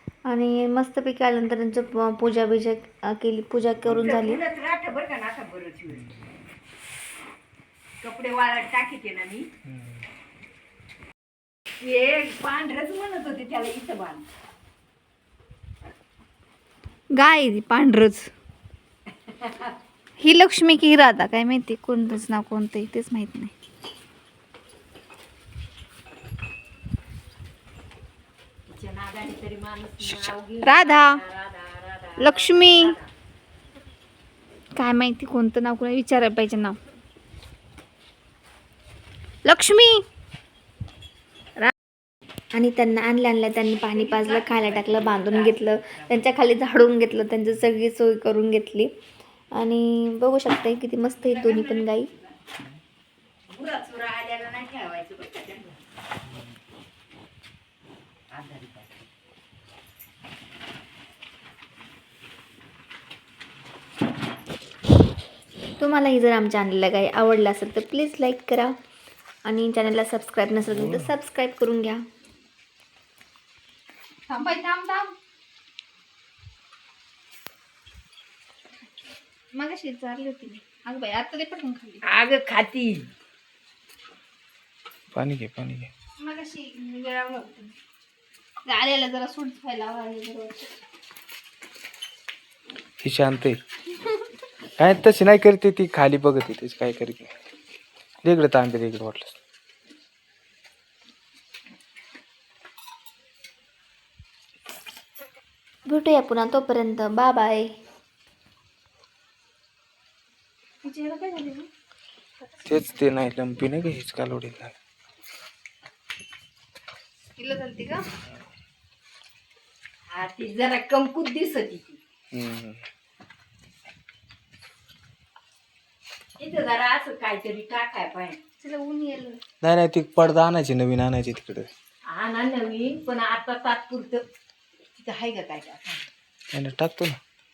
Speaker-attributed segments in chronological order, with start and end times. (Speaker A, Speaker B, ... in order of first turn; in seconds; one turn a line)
Speaker A: 0.3-4.4
Speaker B: 3.8-6.1
Speaker B: 8.0-9.5
Speaker B: 11.8-14.2
Speaker A: 17.1-18.3
Speaker B: 19.2-19.8
Speaker A: 20.2-23.5
Speaker B: 28.7-33.1
Speaker A: 30.1-31.2
Speaker A: 32.2-32.9
Speaker A: 34.8-36.8
Speaker A: 39.4-40.0
Speaker A: 42.5-48.9
Speaker B: 43.8-46.1
Speaker A: 49.6-52.1
Speaker B: 51.2-52.3
Speaker B: 53.5-55.8
Speaker B: 58.3-59.0
Speaker A: 65.8-68.7
Speaker A: 69.4-72.0
Speaker A: 74.3-75.1
Speaker A: 79.5-82.0
Speaker B: 82.0-83.1
Speaker C: 85.1-85.9
Speaker A: 86.2-87.7
Speaker A: 88.7-90.7
Speaker C: 93.0-93.6
Speaker C: 94.8-97.3
Speaker C: 98.2-99.3
Speaker A: 105.8-107.7
Speaker A: 110.8-111.7
Speaker C: 112.7-114.8
Speaker A: 117.4-118.0
Speaker B: 120.1-122.0
Speaker C: 122.3-122.8
Speaker B: 126.4-128.4
Speaker A: 128.6-129.4
Speaker C: 129.6-131.7
Speaker B: 132.1-134.2
Speaker B: 135.0-136.0
Speaker C: 136.5-137.2